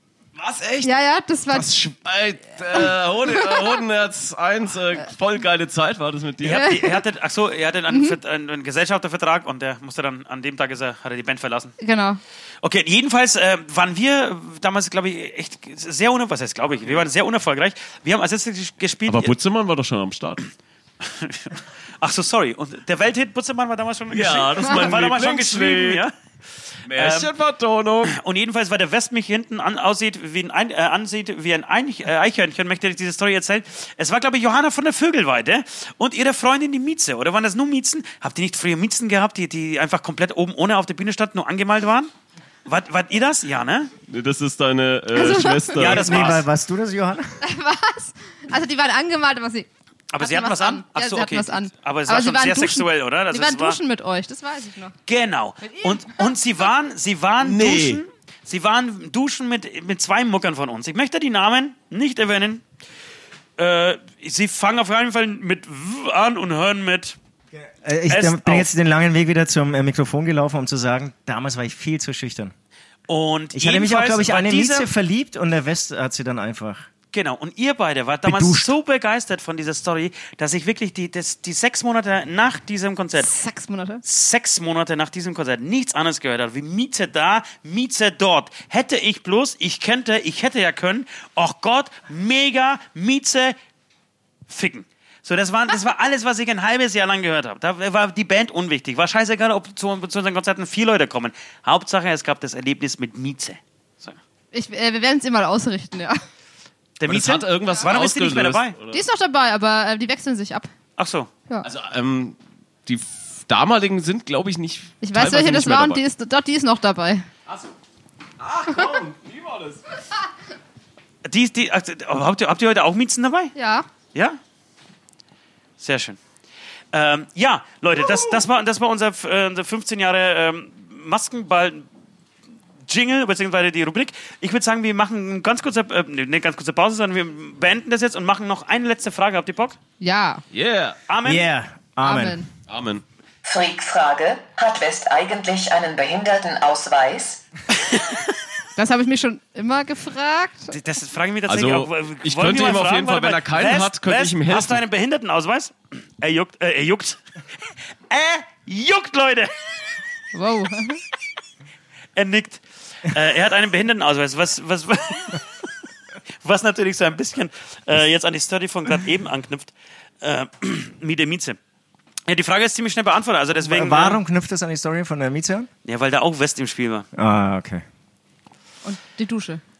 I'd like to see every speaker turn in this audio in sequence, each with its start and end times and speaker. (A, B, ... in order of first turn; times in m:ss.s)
0:00.3-0:00.9 A
0:00.8-0:01.7 B
0:01.5-0:06.7 A
0:06.4-0:11.7 C
0:06.5-0:07.0 B
0:07.9-0:08.2 B
0:11.8-0:12.2 B
0:12.6-0:19.3 C
0:19.1-0:20.5 A
0:21.0-0:26.1 C
0:24.1-0:26.0 A
0:26.8-0:28.2 A
0:26.9-0:27.3 C
0:28.0-0:42.1 C
0:42.6-0:43.9 C
0:44.0-0:46.4 A
0:45.1-0:45.8 B
0:45.7-0:46.5 C
0:45.8-0:47.4 D
0:47.4-0:49.7 B
0:50.1-0:53.8 C
0:50.2-0:54.9 B
0:55.0-1:02.6 C
0:55.6-0:56.3 B
0:57.4-0:58.0 A
1:03.6-1:07.2 C
1:07.5-1:12.5 D
1:08.1-1:08.7 C
1:13.1-1:14.9 C
1:13.5-1:16.9 D
1:17.1-1:23.3 C
1:18.2-1:18.7 D
1:23.2-1:24.0 B
1:24.0-1:33.6 C
1:34.5-1:44.2 C
1:44.5-1:46.2 B
1:47.0-1:48.8 C
1:47.1-1:49.0 A
1:48.9-1:50.7 B
1:51.0-1:51.3 C
1:51.6-1:56.0 A
1:55.0-1:57.2 B
1:57.4-1:57.7 A
1:58.4-1:59.8 A
2:01.2-2:03.5 C
2:03.5-2:03.9 B
2:04.1-2:04.4 C
2:05.8-2:06.2 C
2:06.9-2:11.8 C
2:12.9-2:19.8 C
2:20.0-2:20.4 B
2:20.5-2:21.0 A
2:21.1-2:21.4 C
2:21.2-2:22.4 D
2:22.0-2:22.5 B
2:22.7-2:23.0 A
2:23.4-2:27.4 E
2:28.8-2:30.7 B
2:30.7-2:37.2 C
2:31.5-2:34.8 A
2:38.1-2:39.5 C
2:40.3-2:41.0 B
2:42.2-2:45.4 C
2:46.4-2:51.6 C
2:52.3-2:54.2 C
2:53.5-2:55.7 D
2:55.8-2:57.1 C
2:57.1-2:57.8 D
2:58.8-2:59.6 B